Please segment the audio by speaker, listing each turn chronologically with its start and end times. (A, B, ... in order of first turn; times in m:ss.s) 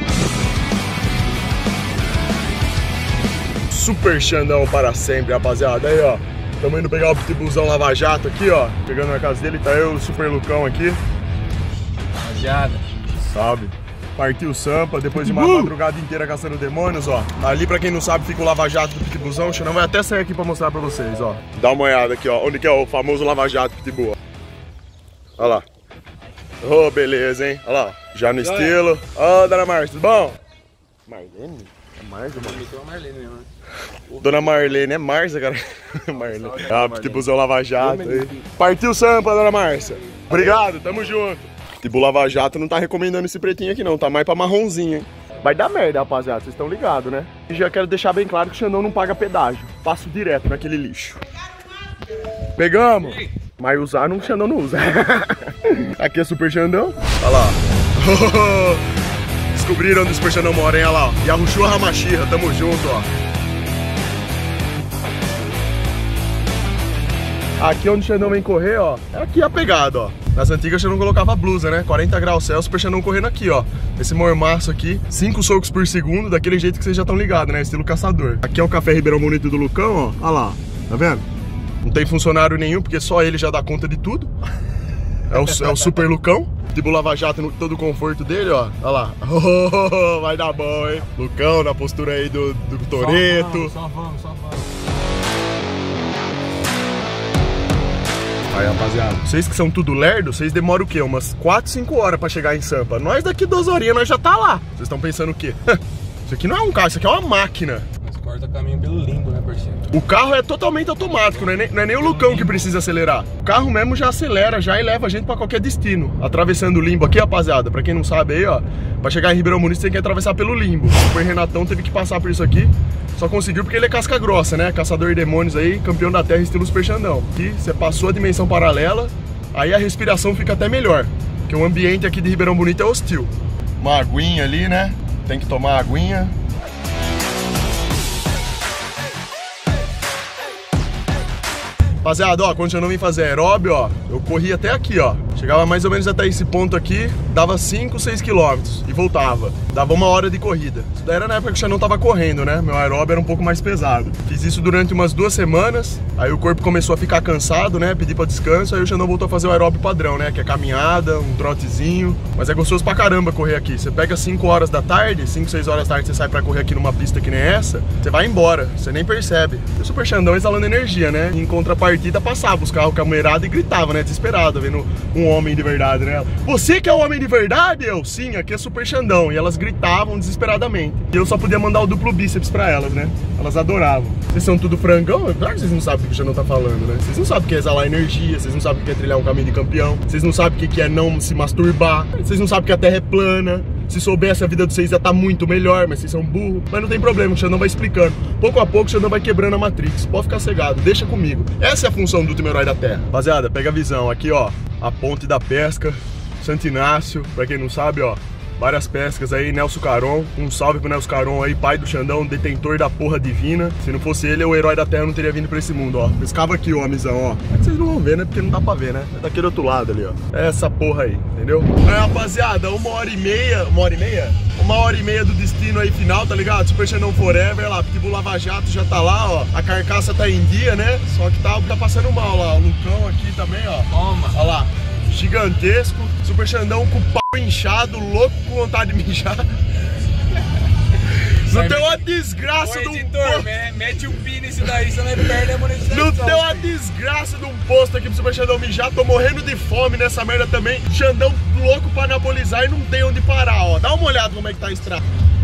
0:03.7-0:11.0 A
0:12.2-0:12.9 B
0:13.2-0:24.2 A
0:15.2-0:15.7 B
0:25.4-0:25.6 A
0:26.6-0:30.4 A
0:28.4-0:28.8 B
0:31.1-0:32.6 A
0:32.3-0:33.5 B
0:34.1-0:34.8 B
0:34.2-0:51.2 A
0:36.1-0:37.2 B
0:37.8-0:38.3 B
0:52.6-0:58.9 A
0:59.5-1:03.1 A
1:07.6-1:21.2 A
1:21.8-1:24.3 A
1:25.3-1:33.7 A
1:30.4-1:31.2 B
1:32.9-1:34.7 B
1:38.5-1:47.9 A
1:48.0-1:49.9 B
1:49.9-2:16.4 A
1:51.0-1:52.7 B
2:22.0-3:59.6 A
3:53.9-3:54.4 B
4:01.1-4:02.0 B
4:01.2-4:03.5 A
4:02.5-4:06.7 B
4:05.8-4:15.0 A